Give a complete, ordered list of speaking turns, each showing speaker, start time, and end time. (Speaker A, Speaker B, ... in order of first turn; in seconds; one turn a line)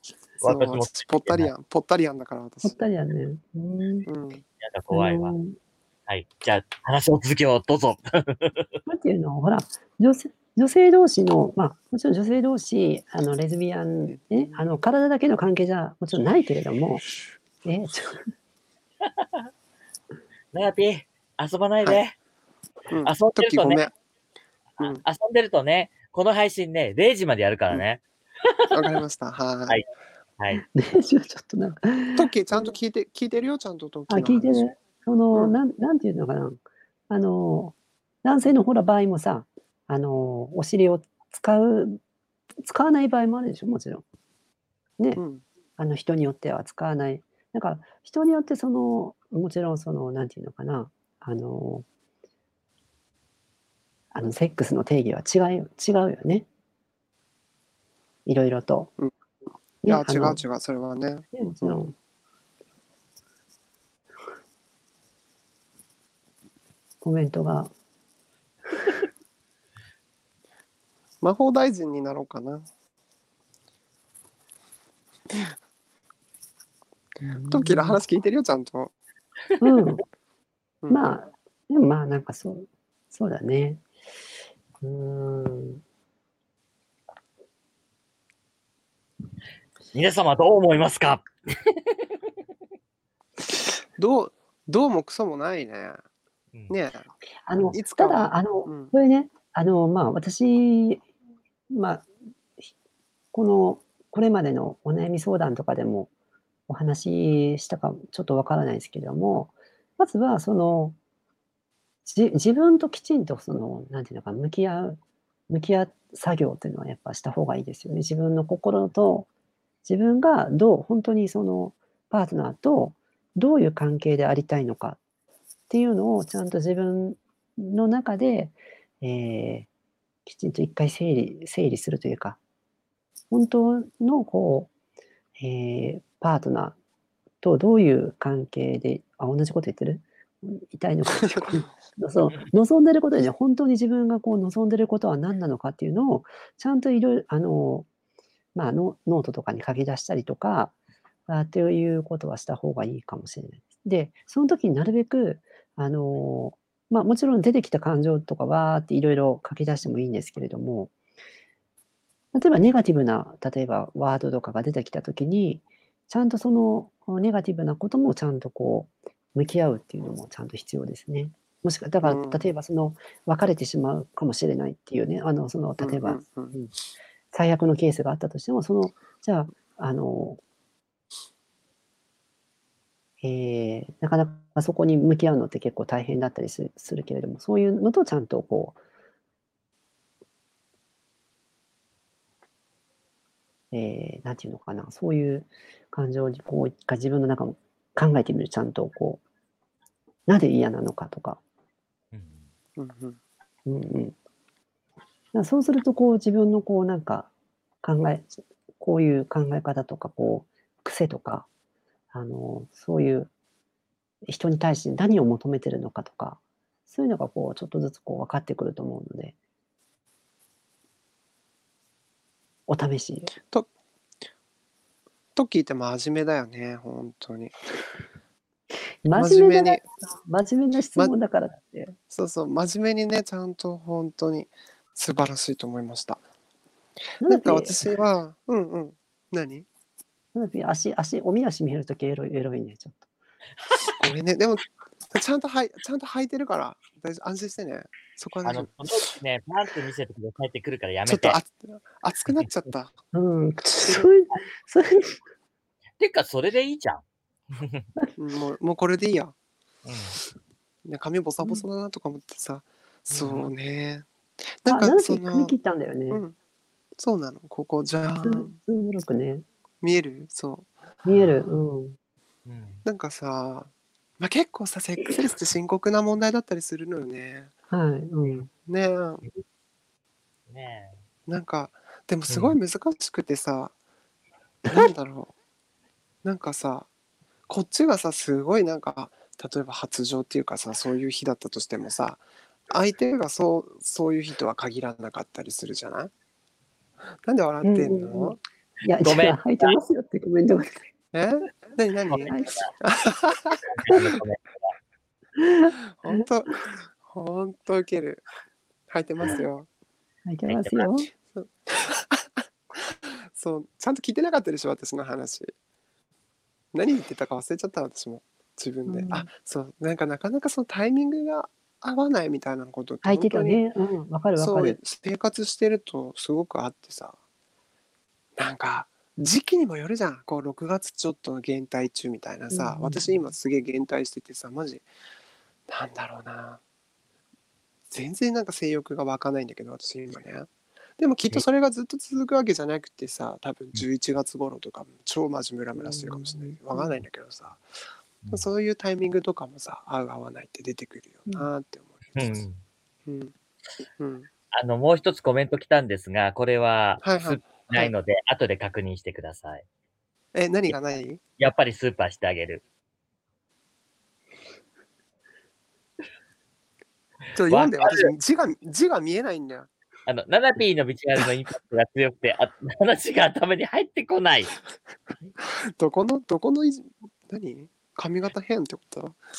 Speaker A: 0.4-1.5
Speaker B: 0.4-2.8
Speaker C: 2.6-4.1
Speaker B: 4.1-4.4
Speaker A: 4.6-5.3
Speaker C: 4.9-5.5
Speaker A: 6.1-8.7
Speaker C: 8.8-17.0
Speaker B: 14.1-14.6
Speaker C: 17.6-18.3
Speaker A: 19.0-19.5
Speaker A: 20.5-22.1
Speaker B: 22.9-23.9
Speaker A: 23.0-23.9
Speaker A: 24.8-28.7
Speaker B: 28.7-29.8
Speaker A: 30.4-30.6
Speaker C: 30.5-32.7
Speaker B: 32.1-34.6
Speaker C: 34.1-42.0
Speaker C: 42.6-44.0
Speaker B: 45.2-45.4
Speaker C: 45.8-51.9
Speaker C: 54.1-56.5
Speaker C: 58.2-58.9
Speaker C: 59.8-60.4
Speaker B: 59.9-61.8
Speaker C: 61.3-61.9
Speaker C: 67.0-67.7
Speaker B: 71.2-72.7
Speaker B: 75.3-75.5
Speaker C: 77.2-78.0
Speaker B: 77.5-78.9
Speaker C: 79.6-80.0
Speaker B: 80.8-81.1
Speaker C: 80.9-83.8
Speaker C: 84.8-85.8
Speaker A: 89.9-92.3
Speaker B: 93.4-96.0
Speaker A: 96.5-96.8
Speaker B: 96.7-97.1
Speaker C: 97.5-101.0
Speaker B: 97.7-98.9
Speaker C: 101.7-102.1
Speaker C: 103.3-106.1
Speaker C: 106.7-111.0
Speaker C: 112.0-115.0
Speaker C: 115.5-119.3
Speaker C: 119.8-125.0
Speaker C: 125.7-129.7
Speaker C: 130.2-132.4
Speaker C: 133.3-134.7
Speaker C: 135.4-136.8
Speaker C: 137.4-147.9
Speaker B: 141.1-141.6
Speaker C: 148.6-150.7
Speaker C: 151.3-160.9
Speaker C: 162.3-176.7
Speaker B: 172.0-172.4
Speaker B: 175.8-176.6
Speaker C: 177.3-180.4
Speaker C: 183.2-188.8
Speaker C: 193.7-199.2
Speaker C: 200.3-201.4
Speaker A: 202.1-202.5
Speaker B: 202.8-203.2
Speaker C: 203.7-204.2
Speaker C: 205.3-207.3
Speaker C: 207.8-211.5
Speaker C: 212.1-213.3
Speaker C: 214.2-219.3
Speaker C: 222.7-223.3
Speaker B: 223.4-223.7
Speaker B: 225.3-227.6
Speaker C: 229.1-231.9
Speaker B: 229.1-229.8
Speaker B: 232.1-236.2
Speaker C: 237.2-237.8
Speaker B: 237.2-239.7
Speaker C: 240.3-243.1
Speaker B: 243.9-249.0
Speaker A: 248.4-251.4
Speaker B: 251.1-252.9
Speaker C: 253.1-255.2
Speaker A: 256.0-257.9
Speaker B: 258.2-259.3
Speaker A: 259.8-260.2
Speaker B: 260.9-264.1
Speaker A: 263.1-263.5
Speaker B: 264.6-265.6
Speaker C: 264.7-266.2
Speaker B: 266.1-266.3
Speaker B: 267.0-268.6
Speaker C: 268.2-269.4
Speaker B: 269.8-270.7
Speaker C: 271.1-272.0
Speaker A: 271.1-271.3
Speaker A: 272.4-272.8
Speaker B: 272.9-277.5
Speaker C: 277.7-278.5
Speaker B: 278.6-279.2
Speaker A: 280.5-281.0
Speaker B: 281.3-283.7
Speaker A: 282.3-282.6
Speaker B: 284.7-285.3
Speaker B: 286.2-286.9
Speaker B: 287.5-296.1
Speaker B: 297.2-298.4
Speaker C: 297.6-300.9
Speaker A: 299.0-299.8
Speaker B: 301.1-303.6
Speaker A: 302.1-302.7
Speaker C: 302.2-302.7
Speaker A: 303.7-304.7
Speaker C: 305.4-306.2
Speaker B: 306.0-308.2
Speaker B: 308.9-309.7
Speaker C: 310.2-311.1
Speaker A: 310.5-310.9
Speaker B: 311.1-315.5
Speaker B: 316.7-323.6
Speaker C: 318.9-319.3
Speaker C: 323.0-324.8
Speaker B: 324.4-327.2
Speaker B: 328.4-334.9
Speaker C: 332.5-333.2
Speaker B: 335.7-336.6
Speaker B: 337.9-347.6
Speaker C: 345.8-347.0
Speaker B: 348.3-352.4
Speaker A: 352.1-352.6
Speaker B: 353.1-353.3
Speaker B: 354.0-354.3
Speaker A: 354.5-359.6
Speaker B: 357.0-357.9
Speaker B: 360.3-361.2
Speaker A: 361.4-362.6
Speaker B: 367.3-369.7
Speaker A: 367.5-368.0
Speaker A: 370.1-374.6
Speaker B: 375.8-379.2